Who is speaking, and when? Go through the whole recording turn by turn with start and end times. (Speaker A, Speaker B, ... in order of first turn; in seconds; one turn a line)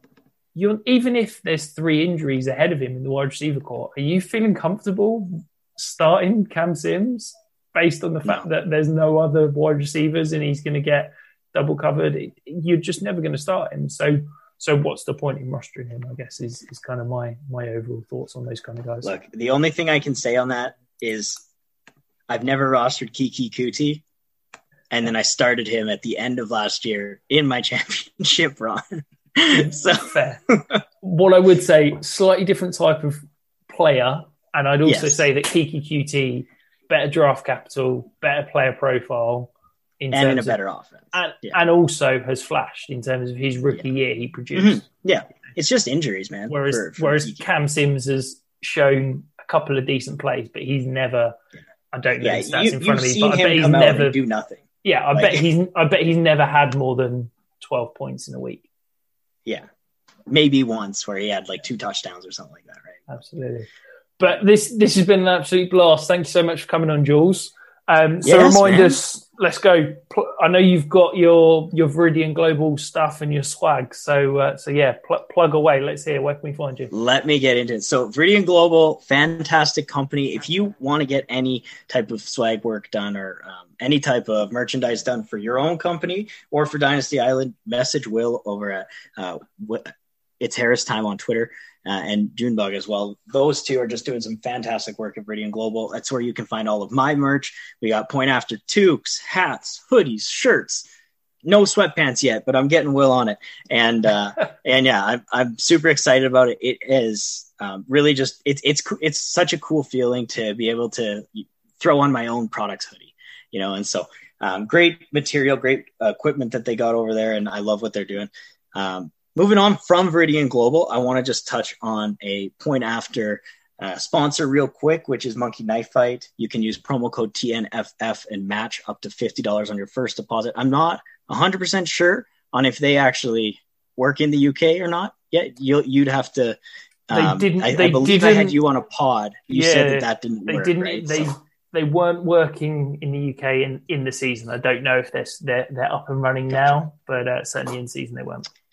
Speaker A: 0.5-19.1
Speaker B: 19.0-21.4
Speaker B: 22.3-24.0
Speaker B: 24.9-30.8
Speaker A: 29.5-30.4
Speaker A: 31.0-39.5
Speaker B: 34.8-35.2
Speaker A: 40.0-40.6
Speaker B: 40.1-41.6
Speaker A: 41.1-44.8
Speaker B: 44.5-47.4
Speaker A: 46.5-51.4
Speaker A: 51.9-54.1
Speaker B: 52.2-55.4
Speaker A: 54.8-58.7
Speaker B: 60.3-63.0
Speaker A: 63.1-63.7
Speaker A: 64.2-76.9
Speaker B: 68.2-69.0
Speaker B: 76.9-100.8
Speaker B: 101.4-136.6
Speaker B: 137.1-141.3
Speaker A: 137.1-138.6
Speaker A: 139.5-148.5